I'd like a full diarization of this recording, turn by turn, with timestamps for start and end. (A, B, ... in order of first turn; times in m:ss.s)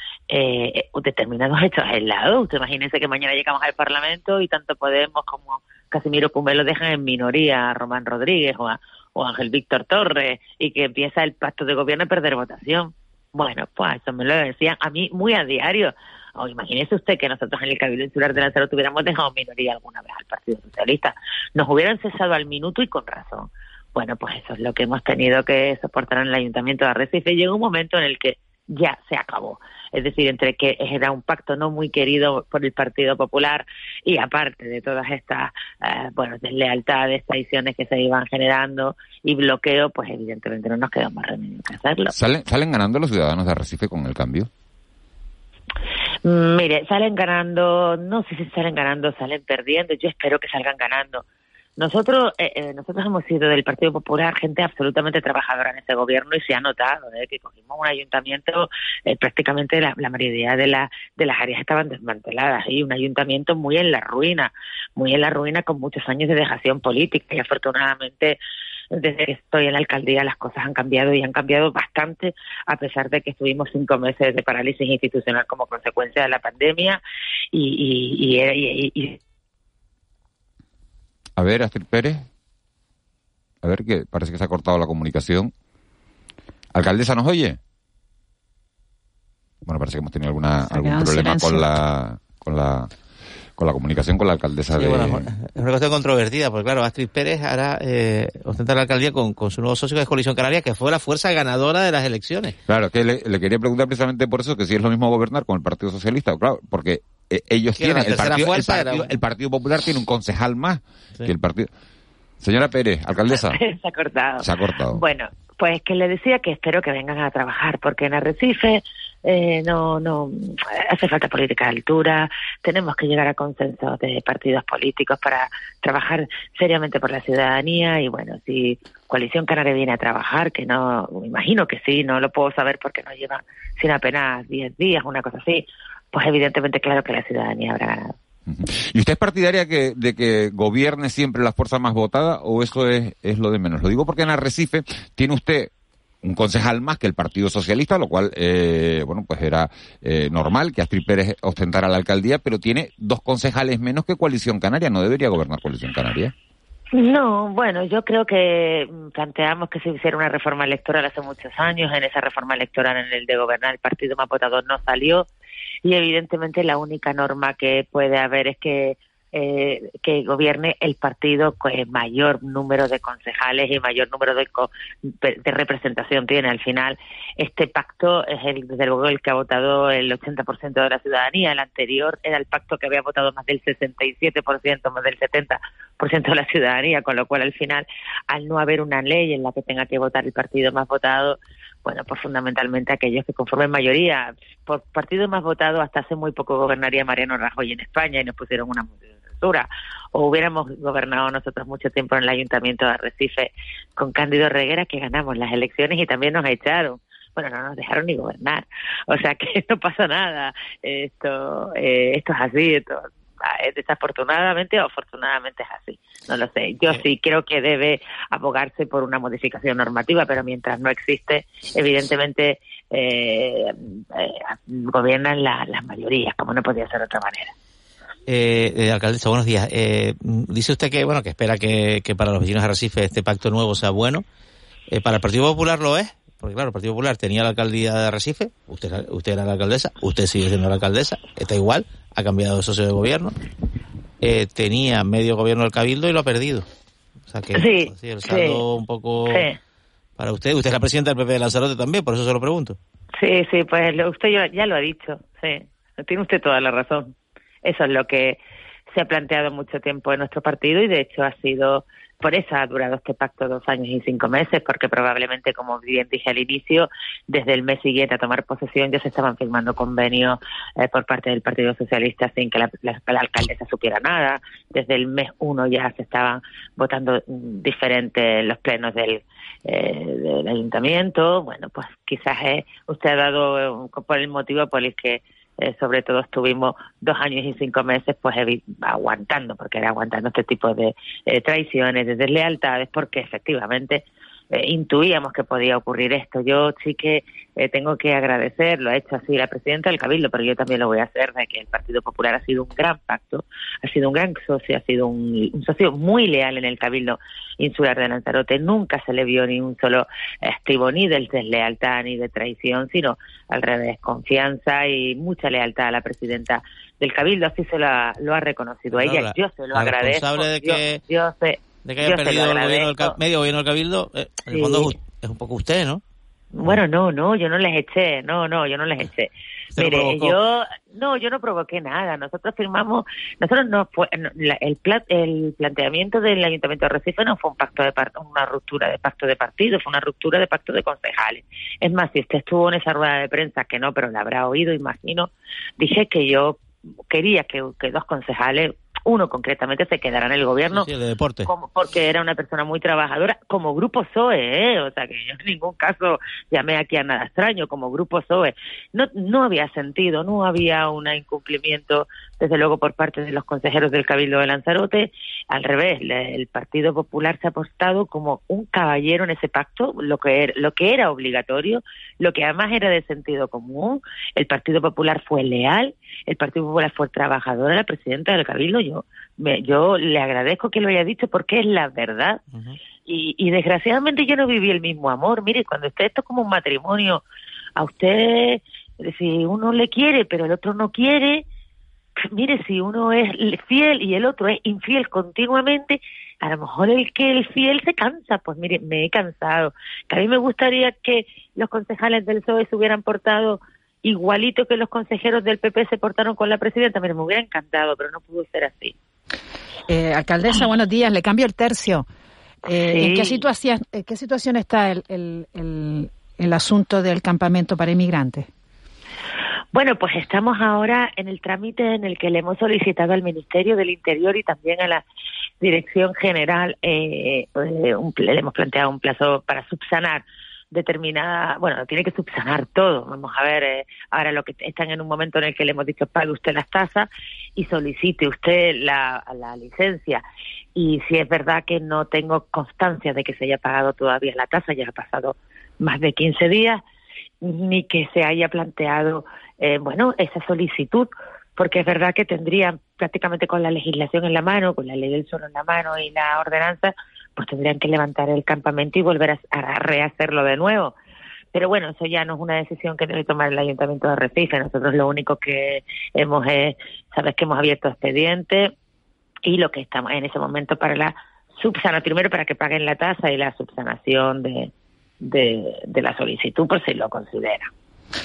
0:00.3-0:42.1 A
0:42.1-0:44.5 B
0:46.2-0:51.2 A
0:51.8-1:08.4 A
1:08.9-1:17.0 A
1:17.5-1:19.2 A
1:21.4-1:22.2 B
1:23.6-1:25.5 B
1:26.7-1:27.6 B
1:29.6-1:32.9 B
1:30.7-1:31.6 C
1:33.6-1:35.2 B
1:34.7-1:42.6 D
1:42.7-1:51.7 B
1:47.8-1:49.1 D
1:52.4-1:53.6 B
1:53.3-2:18.1 A
1:54.4-1:55.0 B
2:18.4-2:25.7 B
2:26.2-2:36.3 B
2:36.9-2:45.3 A
2:45.8-3:47.5 A
3:48.3-3:54.2 D
3:54.9-4:03.3 D
4:04.2-4:06.7 D
4:07.3-4:09.5 D
4:07.5-4:08.6 A
4:09.3-4:09.5 A
4:10.2-4:12.8 D
4:13.2-4:17.1 A
4:17.6-4:18.4 A
4:18.9-5:23.2 A
5:18.9-5:21.0 D
5:21.8-5:26.0 D
5:24.5-5:24.9 A
5:26.5-5:50.9 A
5:29.7-5:30.4 D
5:50.7-5:51.5 D
5:51.4-6:22.4 A
6:22.5-6:22.8 D
6:23.0-6:27.2 A
6:27.8-6:31.4 A
6:32.2-6:48.9 A
6:49.9-6:52.0 C
6:52.7-6:58.5 C
6:52.8-6:53.4 A
6:59.7-7:05.0 A
7:05.6-7:20.2 A
7:20.8-7:26.8 A
7:27.4-7:40.9 A
7:41.5-7:48.7 A
7:49.4-7:54.7 A
7:55.2-7:57.7 A